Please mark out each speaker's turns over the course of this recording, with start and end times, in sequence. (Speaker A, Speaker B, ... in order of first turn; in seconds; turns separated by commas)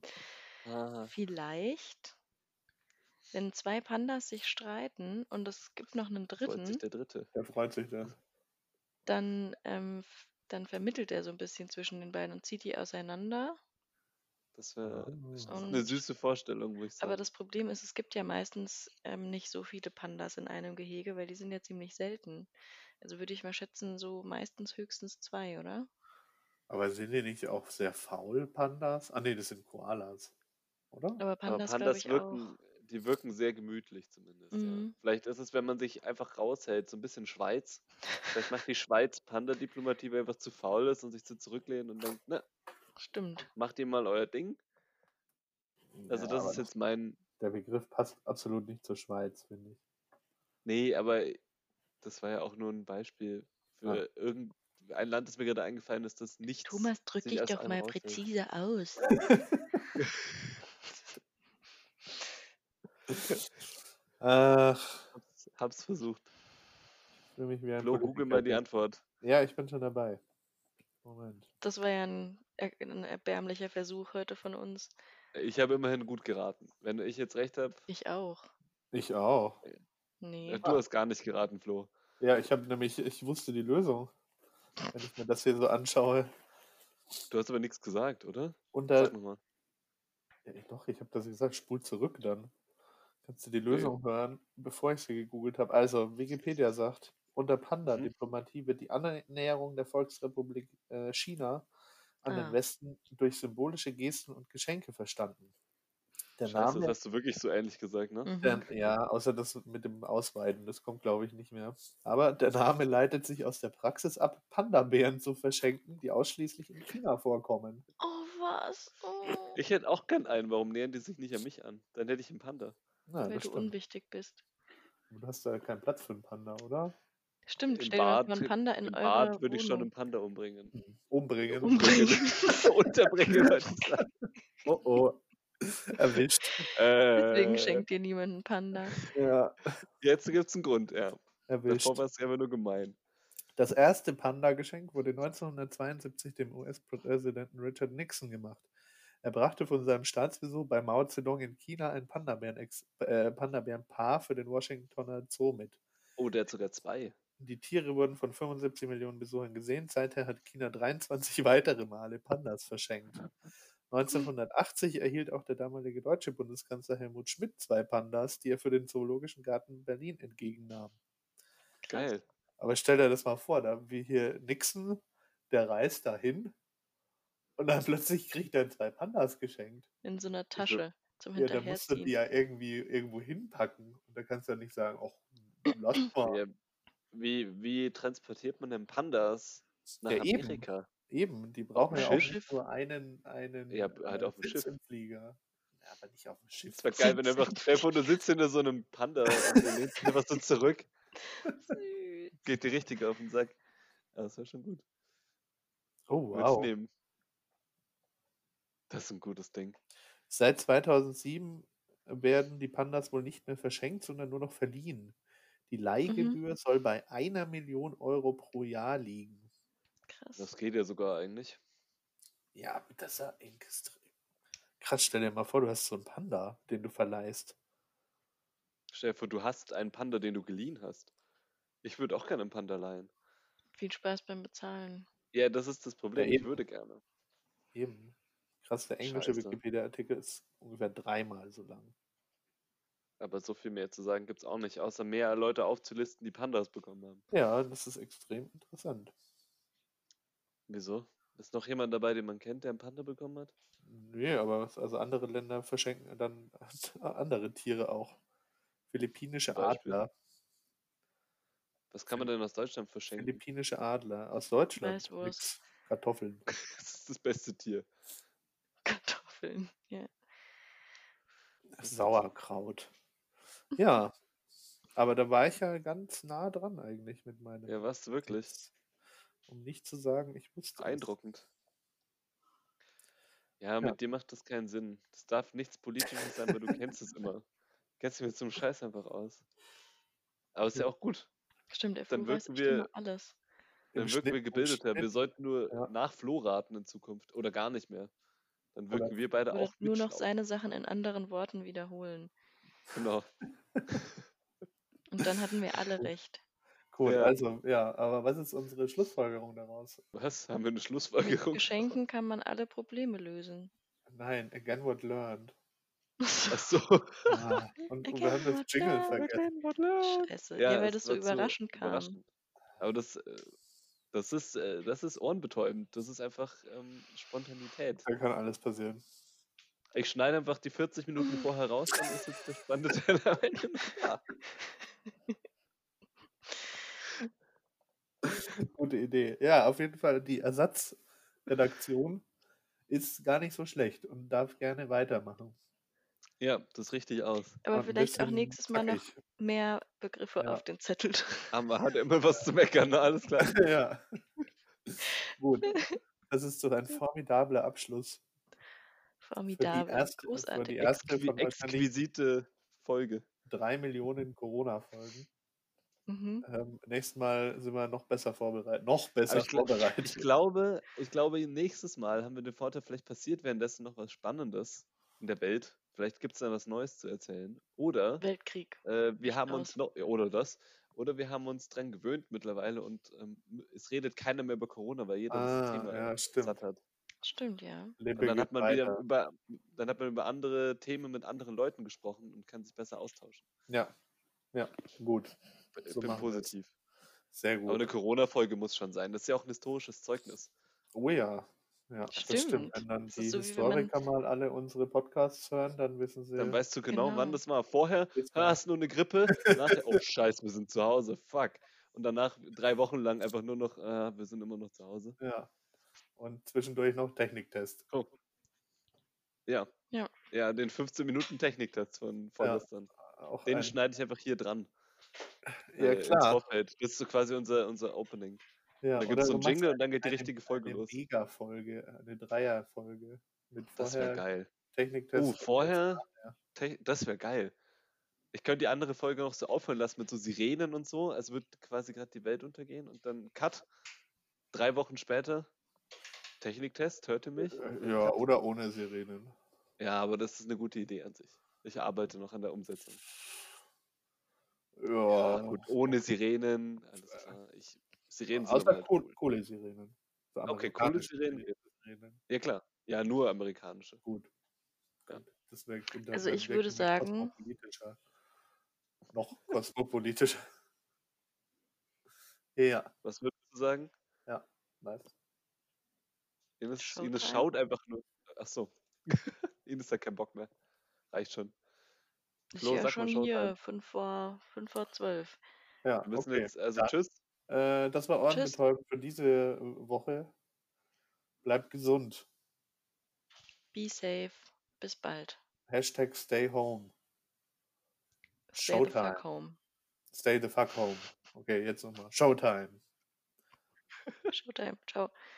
Speaker A: 0.6-1.1, Speaker B: 1.1-2.1, Speaker B: 3.3-6.8, Speaker A: 6.4-7.3, Speaker C: 7.3-8.1, Speaker B: 9.1-13.6, Speaker A: 14.5-17.2, Speaker C: 14.8-15.8, Speaker B: 15.4-16.0, Speaker B: 17.0-25.9, Speaker C: 26.7-30.3, Speaker C: 30.9-31.2, Speaker B: 31.2-32.5, Speaker A: 31.4-42.4, Speaker B: 34.5-34.9, Speaker B: 43.0-43.5, Speaker A: 43.5-44.6, Speaker C: 45.9-46.7, Speaker A: 46.1-47.2, Speaker C: 47.4-49.8, Speaker A: 50.6-51.4, Speaker A: 52.0-58.2, Speaker B: 56.6-59.1, Speaker C: 59.1-59.8, Speaker A: 60.0-60.3, Speaker C: 64.2-65.1, Speaker A: 65.1-66.3, Speaker C: 67.3-68.6, Speaker A: 67.8-69.0, Speaker C: 69.2-70.2, Speaker C: 71.0-71.5, Speaker B: 71.6-74.9, Speaker A: 75.3-77.8, Speaker B: 77.9-78.5, Speaker C: 78.9-79.6, Speaker B: 80.2-80.7, Speaker A: 80.5-81.9, Speaker C: 82.2-84.1, Speaker C: 84.9-86.3, Speaker A: 87.3-89.4, Speaker C: 88.7-89.1, Speaker C: 90.5-92.5, Speaker C: 93.2-101.7, Speaker A: 93.7-93.9, Speaker C: 102.2-105.5, Speaker B: 102.3-102.6, Speaker C: 106.4-106.9, Speaker A: 106.5-108.3, Speaker B: 108.2-108.7, Speaker C: 108.4-117.8, Speaker B: 118.0-119.6, Speaker A: 119.5-122.8, Speaker C: 123.1-123.7, Speaker B: 123.2-124.4, Speaker C: 125.1-126.9, Speaker B: 127.5-129.9, Speaker A: 127.7-130.7, Speaker C: 130.7-132.4, Speaker A: 131.6-134.1, Speaker B: 131.6-132.7, Speaker C: 133.1-133.6, Speaker C: 134.6-136.7, Speaker A: 136.6-137.8, Speaker B: 137.1-139.0, Speaker C: 139.1-139.8, Speaker A: 140.0-142.9, Speaker C: 141.5-142.0, Speaker C: 143.6-148.7, Speaker C: 149.2-155.8, Speaker A: 156.2-157.1, Speaker C: 157.4-163.2, Speaker C: 163.9-171.0, Speaker B: 171.8-172.1, Speaker A: 171.9-172.2, Speaker C: 172.6-176.5, Speaker C: 177.6-179.9, Speaker B: 180.0-182.2, Speaker A: 180.6-180.8, Speaker C: 181.3-186.4, Speaker A: 186.2-186.5, Speaker A: 187.1-190.9, Speaker C: 190.1-196.9, Speaker A: 191.9-192.3, Speaker B: 191.9-192.6, Speaker A: 193.7-194.7, Speaker A: 196.7-200.9, Speaker B: 196.9-198.2, Speaker B: 201.6-202.3, Speaker A: 202.4-203.6, Speaker A: 204.1-204.8, Speaker C: 206.1-206.7, Speaker A: 206.3-206.9, Speaker A: 208.9-209.8, Speaker C: 210.3-215.1, Speaker C: 215.7-219.5, Speaker B: 216.1-216.4, Speaker B: 220.1-220.5, Speaker A: 220.4-221.6, Speaker C: 222.5-224.0, Speaker C: 224.8-227.6, Speaker A: 228.9-231.1, Speaker A: 231.8-233.1, Speaker B: 233.8-235.1, Speaker A: 235.3-237.0, Speaker C: 236.2-236.6, Speaker C: 237.7-241.9, Speaker A: 239.0-239.6, Speaker A: 243.2-247.2, Speaker C: 247.3-249.1, Speaker A: 250.7-253.5, Speaker C: 253.8-258.2, Speaker C: 258.9-260.1, Speaker A: 259.5-260.0, Speaker A: 261.9-263.4, Speaker C: 263.1-266.4, Speaker B: 264.8-265.5, Speaker A: 266.5-267.9, Speaker B: 268.8-270.1, Speaker C: 271.7-272.9, Speaker A: 271.8-272.2, Speaker C: 273.7-274.1, Speaker C: 274.9-278.7, Speaker A: 277.6-278.5, Speaker C: 279.5-281.1, Speaker A: 280.8-281.5, Speaker A: 283.6-287.4, Speaker A: 288.0-289.4, Speaker A: 290.5-291.3, Speaker B: 291.7-293.4, Speaker A: 292.1-292.9, Speaker C: 293.9-295.1, Speaker A: 293.9-298.1, Speaker A: 298.7-300.2, Speaker B: 299.5-302.3, Speaker A: 302.9-303.3, Speaker A: 303.9-304.2, Speaker B: 305.1-306.4, Speaker C: 306.9-310.0, Speaker A: 307.0-307.4, Speaker A: 310.1-311.8, Speaker B: 311.2-313.7, Speaker C: 314.1-315.5, Speaker B: 316.2-316.6, Speaker A: 316.5-317.4, Speaker C: 317.3-319.4, Speaker B: 318.0-319.3, Speaker A: 319.1-322.2, Speaker B: 320.0-322.2, Speaker A: 322.8-323.5, Speaker A: 324.1-328.1, Speaker C: 328.1-329.0, Speaker A: 329.9-334.2, Speaker C: 338.2-342.2, Speaker C: 342.9-345.6, Speaker A: 346.4-347.6, Speaker B: 347.6-351.6, Speaker C: 347.7-349.2, Speaker A: 351.5-353.6, Speaker C: 353.4-354.2, Speaker C: 354.9-358.2, Speaker B: 355.6-355.9, Speaker B: 359.2-361.2, Speaker C: 359.5-361.9, Speaker A: 361.1-363.2, Speaker C: 363.5-365.3, Speaker B: 366.1-366.4, Speaker C: 366.4-370.2, Speaker A: 369.3-378.2, Speaker B: 378.2-379.8, Speaker A: 378.8-386.8, Speaker C: 385.3-386.6, Speaker B: 387.2-388.0, Speaker C: 388.0-389.0, Speaker A: 388.1-393.4, Speaker C: 393.7-393.9, Speaker C: 394.5-395.3, Speaker A: 395.7-396.7, Speaker C: 395.9-396.5, Speaker C: 397.3-397.9, Speaker A: 397.6-400.5, Speaker C: 400.9-406.6, Speaker B: 402.1-403.9, Speaker A: 406.4-415.2, Speaker B: 406.9-407.4, Speaker C: 408.1-408.6, Speaker C: 409.4-410.0, Speaker C: 415.2-415.5, Speaker C: 416.2-417.8, Speaker A: 420.3-422.9, Speaker C: 422.4-423.7, Speaker A: 423.4-424.7, Speaker C: 425.4-426.4, Speaker A: 425.8-428.4, Speaker C: 428.8-436.3, Speaker A: 429.0-430.9, Speaker A: 433.8-434.5, Speaker A: 435.1-436.0, Speaker A: 436.5-437.5, Speaker A: 438.3-443.6, Speaker A: 444.5-445.5, Speaker A: 446.4-448.2, Speaker C: 447.4-449.3, Speaker A: 449.8-453.0, Speaker C: 454.8-456.0, Speaker A: 455.2-459.1, Speaker C: 458.3-462.2, Speaker A: 460.5-461.5, Speaker A: 462.3-464.0, Speaker C: 465.1-468.0, Speaker B: 466.1-467.3, Speaker C: 469.1-470.4, Speaker C: 472.6-472.9, Speaker A: 473.0-473.9, Speaker C: 474.3-475.1, Speaker A: 476.6-480.5, Speaker B: 476.8-477.5, Speaker A: 481.1-481.5, Speaker B: 482.5-485.4, Speaker A: 482.6-483.5, Speaker C: 485.8-486.9, Speaker A: 486.0-487.1, Speaker C: 487.5-490.3, Speaker B: 488.3-488.6, Speaker C: 491.4-492.3, Speaker B: 493.7-495.4, Speaker C: 495.7-496.9, Speaker B: 498.5-499.6, Speaker C: 498.6-499.2, Speaker C: 500.1-502.8, Speaker B: 504.3-505.1